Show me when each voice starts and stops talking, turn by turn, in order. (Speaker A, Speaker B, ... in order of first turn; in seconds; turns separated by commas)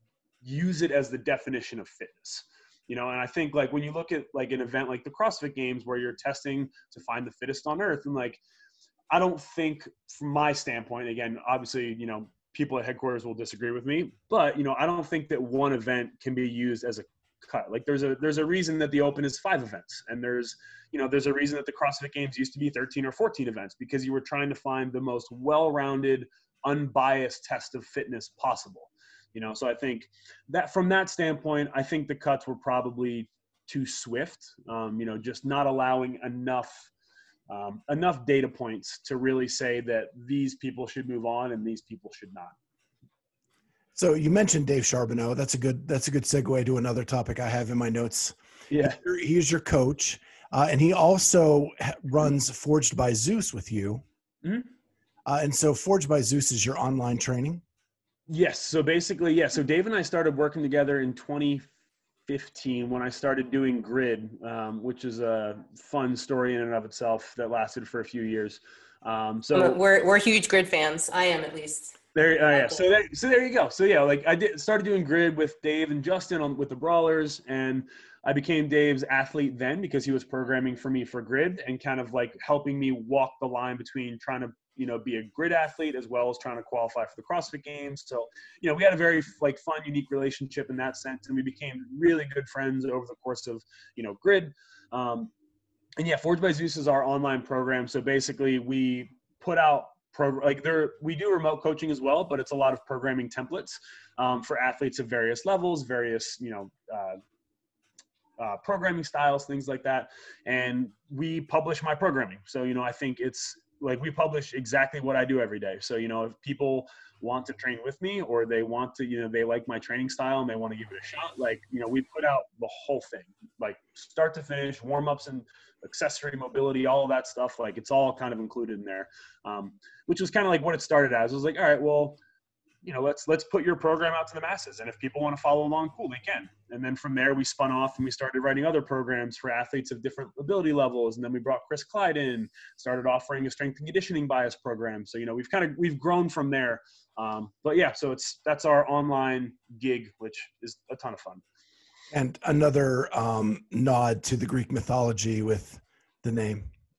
Speaker A: 0.4-8.4, Speaker A: 9.1-36.9, Speaker A: 37.5-42.5, Speaker B: 44.0-54.0, Speaker A: 48.7-49.0, Speaker A: 54.4-54.7, Speaker B: 55.3-57.6, Speaker A: 58.3-61.7, Speaker A: 62.3-69.8, Speaker C: 69.5-72.8, Speaker A: 72.2-95.3, Speaker A: 96.0-107.2, Speaker A: 108.4-132.2, Speaker A: 132.8-151.4, Speaker B: 152.1-156.7